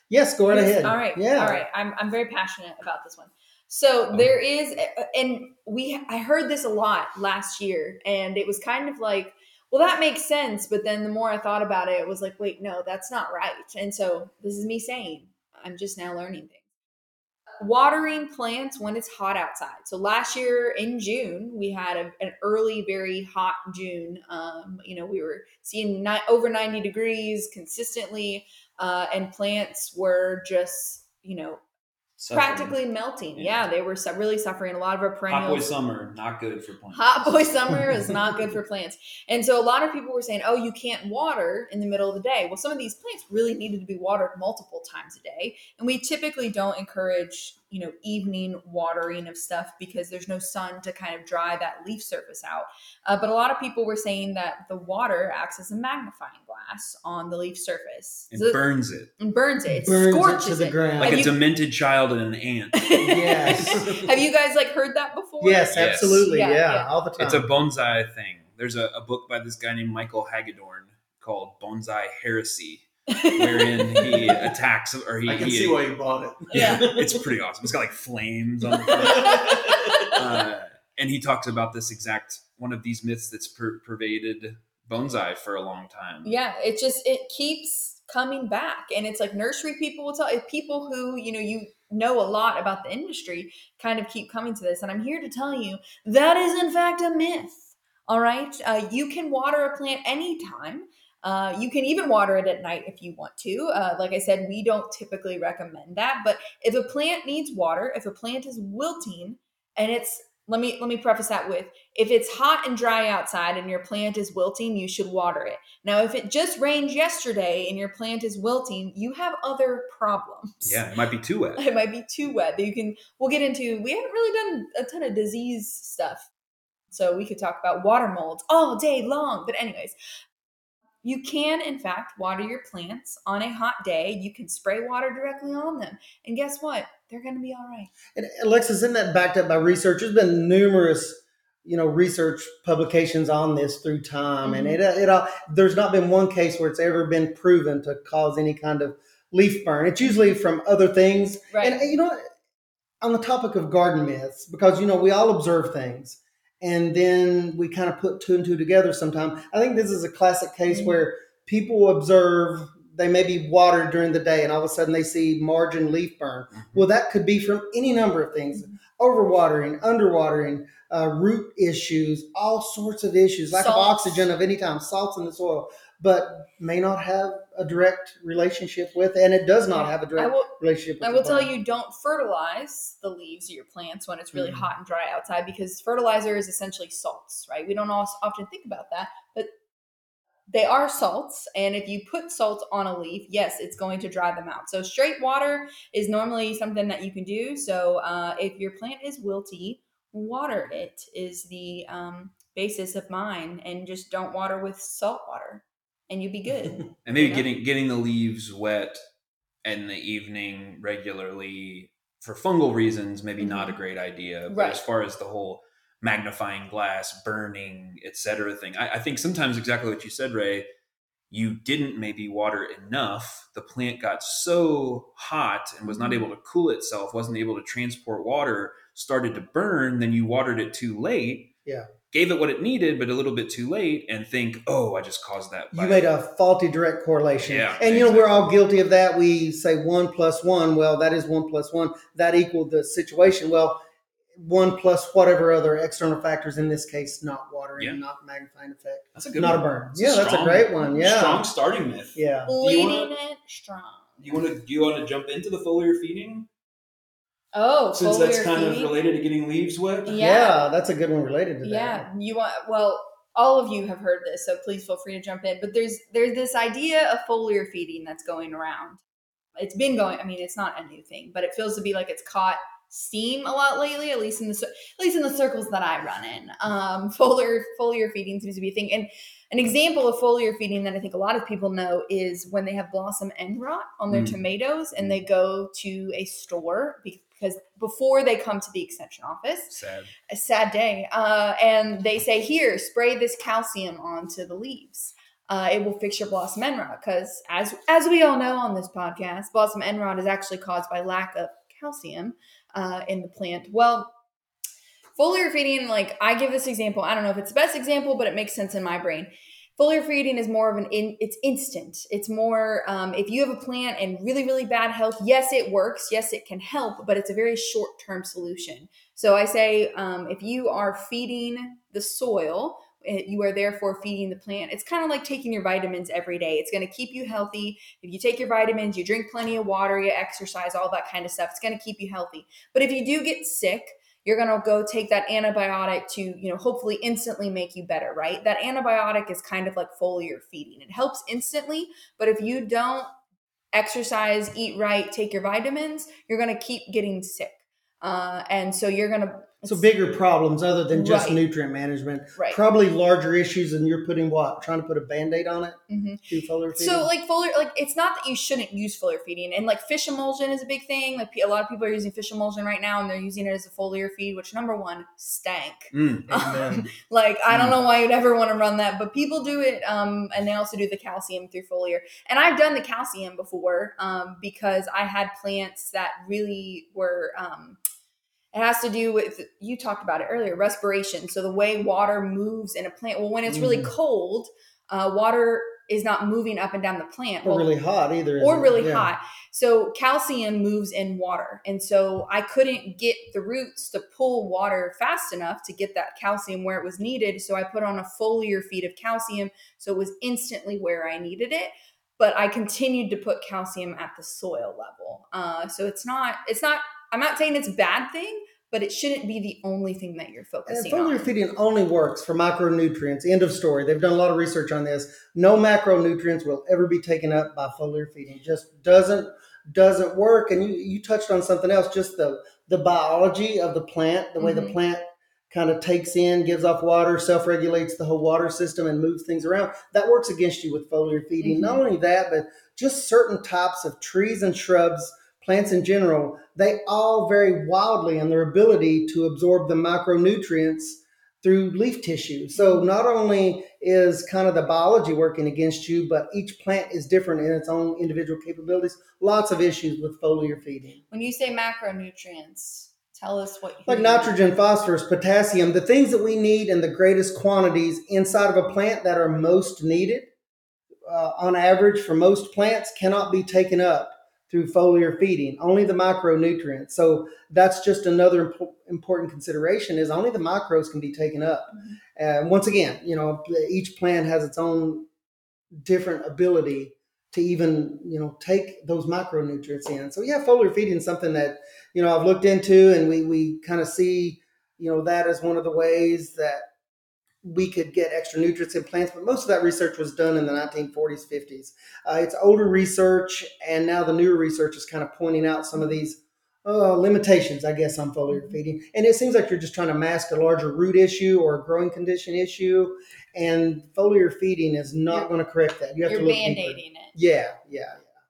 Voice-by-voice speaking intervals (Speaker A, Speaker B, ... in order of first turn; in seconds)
Speaker A: 0.1-1.6, 59.7-61.2, 63.0-63.8, 65.4-67.5, 138.1-152.2, 153.0-181.5, 184.3-184.6, 235.7-243.8, 244.3-251.5, 252.1-252.5, 260.1-262.1, 349.6-357.1, 383.4-383.9, 387.4-389.1, 410.6-451.0, 453.9-460.3, 461.1-475.1, 475.8-486.6, 487.4-508.1
Speaker B: 0.5-16.6, 17.6-31.6, 32.3-35.7, 36.9-58.6, 59.2-61.4, 62.8-66.9, 73.1-74.4, 76.5-76.8, 78.7-80.2, 86.2-120.8, 121.6-126.3, 126.9-129.9, 131.0-137.9, 144.4-144.8, 151.5-151.8, 160.7-161.0, 173.5-174.3, 179.7-180.5, 181.0-189.5, 190.5-207.4, 213.4-213.8, 214.5-214.8, 225.9-226.2, 252.5-254.4, 257.5-258.9, 260.1-260.6, 261.6-269.0, 269.6-289.7, 290.3-304.1, 305.2-343.1, 343.7-349.8, 350.9-351.4, 355.9-377.8, 378.5-387.7, 388.4-411.3, 424.4-424.8, 431.4-431.8, 442.5-442.9, 451.1-454.4, 498.3-498.6, 506.1-507.1
Speaker C: 32.2-32.8, 33.3-33.6, 35.3-37.3, 58.3-59.1, 61.0-62.9, 65.7-66.3, 67.2-75.9, 76.5-79.4, 80.1-86.3, 120.6-121.6, 166.5-166.8, 207.1-209.0, 209.6-220.7, 221.3-231.5, 232.1-236.1, 237.4-238.5, 249.1-253.1, 254.2-256.5, 257.9-260.1, 284.1-284.4, 289.7-290.1, 365.9-366.3, 367.5-367.8
Speaker D: 74.0-74.5, 75.2-77.2, 78.9-80.2, 366.3-366.9